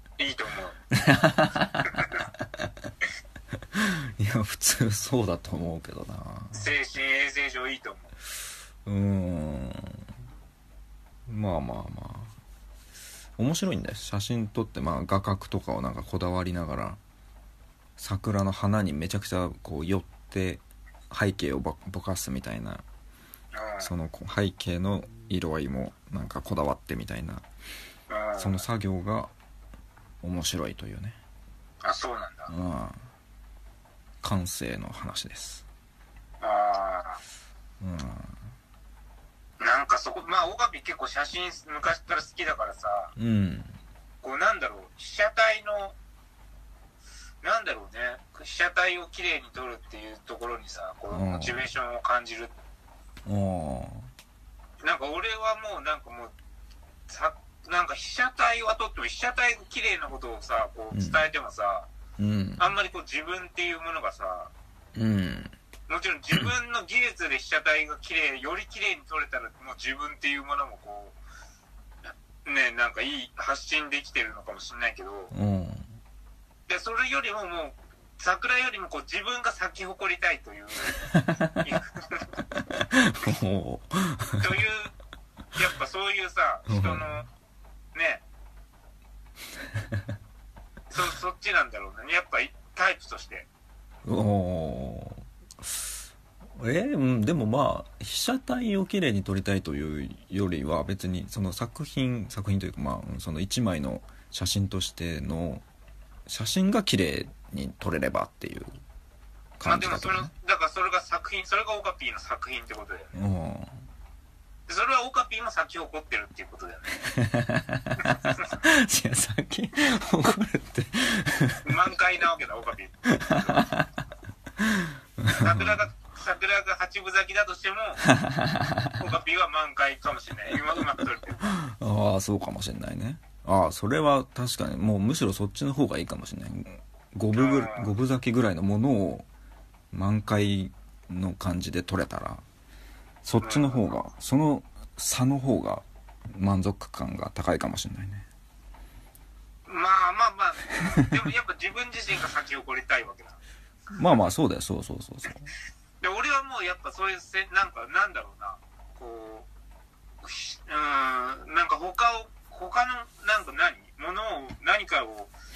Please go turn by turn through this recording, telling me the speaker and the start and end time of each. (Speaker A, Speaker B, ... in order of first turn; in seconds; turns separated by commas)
Speaker A: 0.2-0.8, Speaker B: 0.9-2.7, Speaker A: 1.9-2.2, Speaker B: 3.7-6.7, Speaker A: 6.5-8.1, Speaker B: 8.8-10.0, Speaker B: 11.3-12.3, Speaker B: 13.4-17.0, Speaker B: 18.0-22.8, Speaker A: 23.5-23.9, Speaker B: 23.8-27.4, Speaker A: 28.1-28.6, Speaker B: 28.4-29.3, Speaker B: 30.2-31.2, Speaker A: 31.8-32.5, Speaker B: 32.5-33.0, Speaker B: 34.2-35.6, Speaker A: 36.4-37.2, Speaker B: 37.8-38.4, Speaker A: 39.6-43.1, Speaker B: 43.1-43.8, Speaker A: 44.2-46.0, Speaker A: 47.4-52.5, Speaker B: 51.1-51.6, Speaker B: 53.2-54.1, Speaker A: 54.8-56.3, Speaker A: 57.1-61.9, Speaker B: 60.9-61.2, Speaker B: 62.2-62.6, Speaker A: 62.6-64.5, Speaker B: 64.9-65.5, Speaker A: 65.9-71.2, Speaker A: 72.0-75.3, Speaker B: 75.3-75.9, Speaker A: 76.7-81.0, Speaker B: 81.0-81.6, Speaker A: 81.6-82.2, Speaker B: 82.7-84.5, Speaker A: 84.4-84.9, Speaker A: 85.5-87.3, Speaker B: 86.7-87.1, Speaker A: 87.9-88.2, Speaker A: 90.9-93.5, Speaker B: 94.0-95.9, Speaker B: 96.6-105.6, Speaker B: 106.3-108.7, Speaker B: 109.6-110.3, Speaker A: 109.6-113.1, Speaker B: 113.1-113.8, Speaker A: 114.7-116.9, Speaker B: 117.0-121.7, Speaker A: 118.0-118.4, Speaker A: 121.6-123.6, Speaker B: 123.1-123.9, Speaker B: 124.6-125.8, Speaker A: 125.3-128.0, Speaker B: 128.1-129.0, Speaker A: 128.9-131.6, Speaker B: 131.5-139.2, Speaker A: 137.3-137.9, Speaker B: 139.9-142.4, Speaker B: 143.2-148.2, Speaker A: 143.4-143.9, Speaker A: 149.7-153.4, Speaker B: 150.8-151.2, Speaker B: 153.9-155.5, Speaker A: 156.0-159.5, Speaker A: 160.2-165.3